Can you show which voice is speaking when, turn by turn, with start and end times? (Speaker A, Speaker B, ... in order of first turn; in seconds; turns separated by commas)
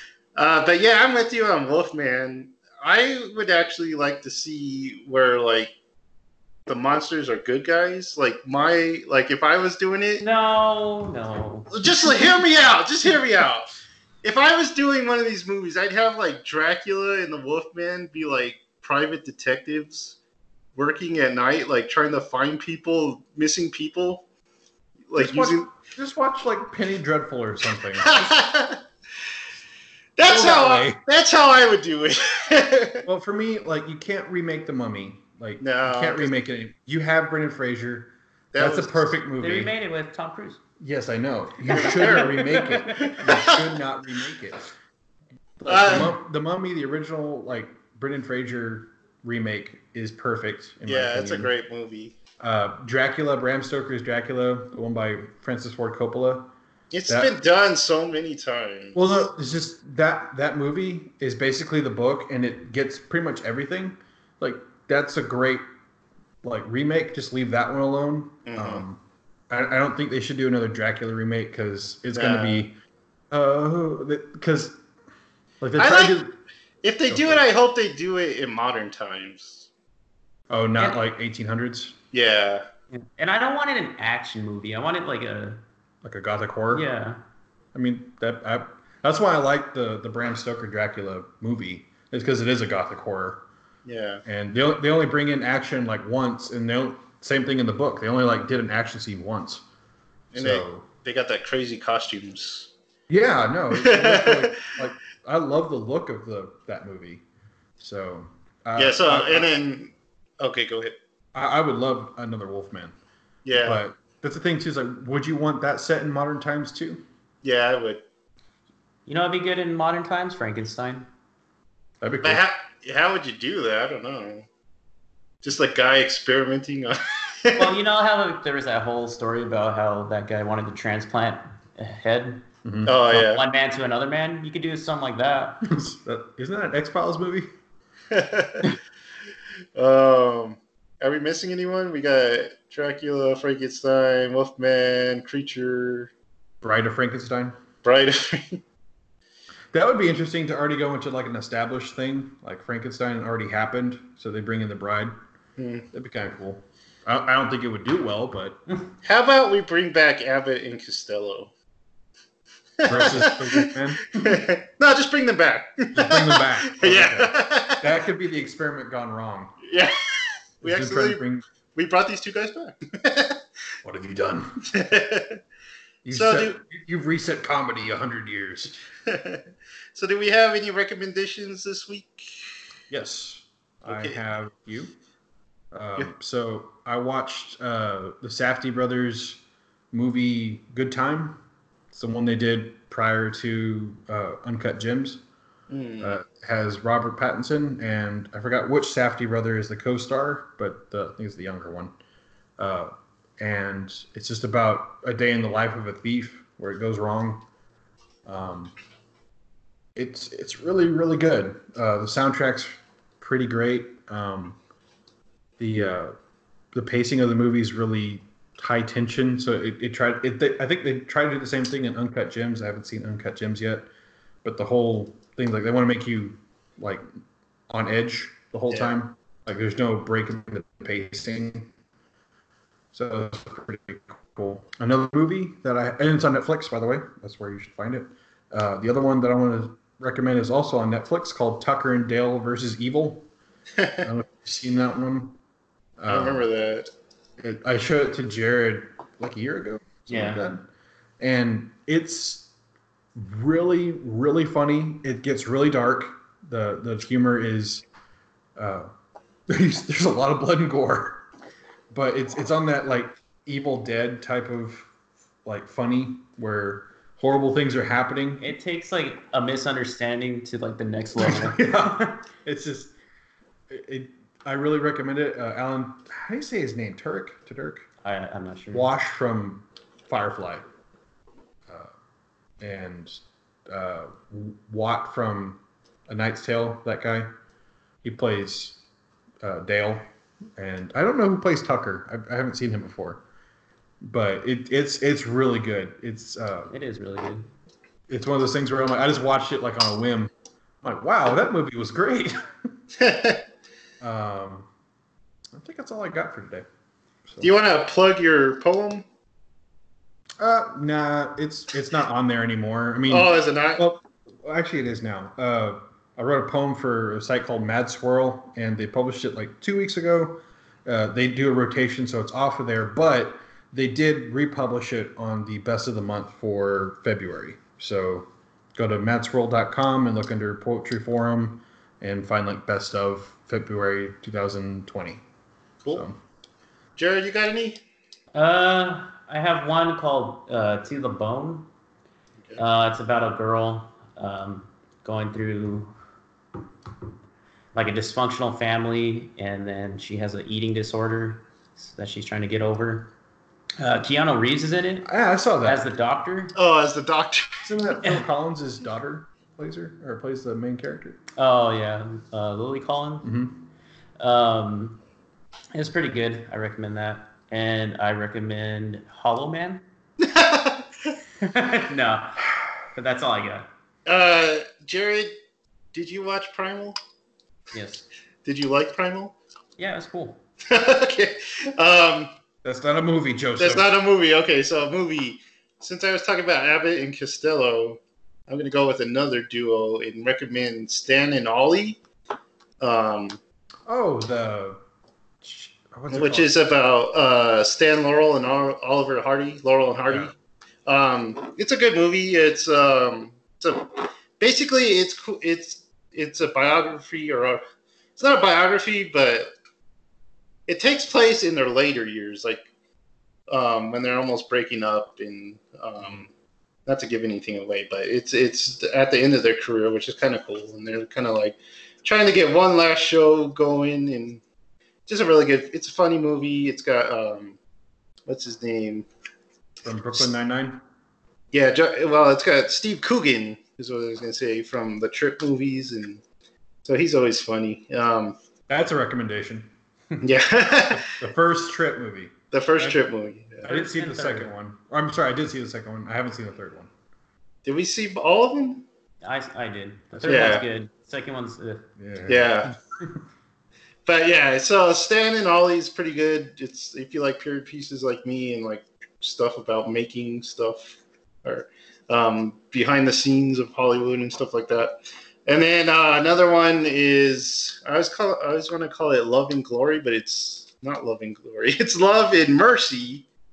Speaker A: 0.4-5.7, Speaker A: 6.7-10.2, Speaker B: 10.2-11.8, Speaker A: 11.7-13.7, Speaker A: 14.2-20.2, Speaker A: 20.8-24.2, Speaker A: 25.1-25.7, Speaker C: 25.2-28.3, Speaker A: 28.0-28.8, Speaker A: 30.2-33.1, Speaker C: 30.2-31.0, Speaker C: 33.1-39.7, Speaker A: 35.6-36.3, Speaker A: 38.5-39.1, Speaker B: 39.4-40.6, Speaker C: 40.8-44.7, Speaker A: 41.7-43.7, Speaker B: 41.7-43.2, Speaker C: 45.6-51.5, Speaker A: 45.7-46.1, Speaker A: 50.9-52.2, Speaker C: 52.4-56.5, Speaker A: 56.9-59.0, Speaker C: 58.9-65.7, Speaker C: 66.4-72.8, Speaker A: 68.5-68.8, Speaker A: 72.1-72.6, Speaker C: 73.3-74.8, Speaker C: 75.6-76.4, Speaker A: 75.8-76.2, Speaker A: 76.8-79.7, Speaker C: 77.1-77.5, Speaker C: 80.5-82.0, Speaker A: 82.1-82.6, Speaker B: 82.9-85.6, Speaker C: 86.0-86.9, Speaker B: 86.7-87.2, Speaker C: 87.7-93.4, Speaker A: 93.8-94.2, Speaker C: 94.2-99.6, Speaker C: 100.3-100.9, Speaker A: 100.3-102.7, Speaker C: 103.1-107.2, Speaker A: 103.7-104.7, Speaker C: 107.8-109.5, Speaker A: 108.8-111.0, Speaker C: 111.3-113.0, Speaker A: 113.5-113.8, Speaker C: 113.6-117.0, Speaker A: 117.4-118.0, Speaker B: 119.1-121.1, Speaker C: 122.0-122.4, Speaker A: 122.2-124.5, Speaker A: 125.4-127.7, Speaker B: 127.5-132.4, Speaker C: 132.6-133.1, Speaker A: 132.9-133.4, Speaker B: 133.1-135.7, Speaker C: 135.6-137.5, Speaker A: 138.1-138.8, Speaker A: 139.8-146.1, Speaker C: 146.6-147.6, Speaker A: 147.8-148.6, Speaker C: 149.7-155.2, Speaker A: 155.6-155.9, Speaker C: 155.9-158.6, Speaker A: 159.0-161.5, Speaker A: 162.8-167.9, Speaker C: 162.9-164.4, Speaker C: 165.9-169.6, Speaker A: 169.7-171.2, Speaker C: 170.6-171.4, Speaker A: 171.8-173.4, Speaker C: 173.8-174.6, Speaker A: 174.7-175.4, Speaker C: 176.0-178.8, Speaker A: 176.1-176.6, Speaker A: 179.1-179.4, Speaker A: 179.9-182.5, Speaker C: 182.9-184.9, Speaker A: 183.8-184.2, Speaker C: 185.7-189.4, Speaker C: 189.9-191.4, Speaker C: 191.9-195.2, Speaker A: 195.7-196.2, Speaker C: 196.0-201.9, Speaker C: 202.6-207.4, Speaker C: 208.2-208.7, Speaker C: 209.9-214.6, Speaker C: 215.6-216.1, Speaker C: 216.7-223.9, Speaker C: 224.4-227.0, Speaker C: 227.7-231.7, Speaker A: 228.7-229.0, Speaker C: 232.9-243.3, Speaker A: 243.8-244.1, Speaker C: 244.0-245.4, Speaker C: 246.0-246.5, Speaker A: 246.1-246.9, Speaker C: 247.4-250.6, Speaker B: 250.1-250.5, Speaker C: 251.2-252.5, Speaker C: 253.2-257.8, Speaker C: 258.6-258.9, Speaker C: 259.5-261.2, Speaker C: 261.9-264.9, Speaker C: 265.4-268.5, Speaker B: 268.4-272.2, Speaker C: 271.2-272.9, Speaker C: 273.7-277.9, Speaker B: 278.0-278.9, Speaker C: 278.7-280.6, Speaker C: 282.6-287.3, Speaker C: 288.0-288.8, Speaker C: 289.4-290.1, Speaker C: 290.6-293.2, Speaker C: 294.0-296.7, Speaker B: 296.7-297.5, Speaker C: 298.1-302.5, Speaker A: 303.0-303.4, Speaker C: 304.0-304.7, Speaker C: 305.5-306.6, Speaker A: 307.4-309.1, Speaker C: 310.4-335.2, Speaker A: 313.1-313.8, Speaker C: 335.9-336.2, Speaker A: 337.0-337.8, Speaker B: 338.3-341.7, Speaker B: 342.6-345.9, Speaker B: 347.7-353.1, Speaker B: 353.8-355.1, Speaker C: 355.0-355.9, Speaker B: 355.6-356.6, Speaker A: 356.6-357.7, Speaker C: 357.6-361.2, Speaker B: 361.4-363.3, Speaker C: 363.2-363.6, Speaker B: 364.2-365.0, Speaker B: 365.7-369.8, Speaker A: 370.2-370.8, Speaker B: 371.4-373.7, Speaker A: 374.1-375.4, Speaker A: 375.9-377.0, Speaker B: 377.7-378.1, Speaker A: 378.4-379.4, Speaker B: 379.8-380.4, Speaker A: 380.7-382.3, Speaker C: 382.6-383.9, Speaker A: 383.6-392.0, Speaker A: 392.8-393.4, Speaker C: 393.9-394.8, Speaker C: 395.4-396.5, Speaker A: 396.1-400.3, Speaker A: 400.9-407.6, Speaker A: 408.2-409.5, Speaker A: 410.7-412.7, Speaker A: 413.5-416.3, Speaker A: 416.9-424.4, Speaker A: 425.1-427.6, Speaker A: 428.3-429.1, Speaker C: 429.8-430.8, Speaker A: 431.5-436.2, Speaker A: 436.9-438.4, Speaker C: 438.7-439.7, Speaker A: 440.2-441.2, Speaker C: 441.0-443.1, Speaker A: 442.5-443.7, Speaker C: 443.6-446.9, Speaker B: 443.7-444.5, Speaker A: 447.6-448.9, Speaker B: 449.2-451.9, Speaker A: 450.2-450.7, Speaker C: 452.0-452.6, Speaker A: 452.3-452.8, Speaker A: 454.1-473.3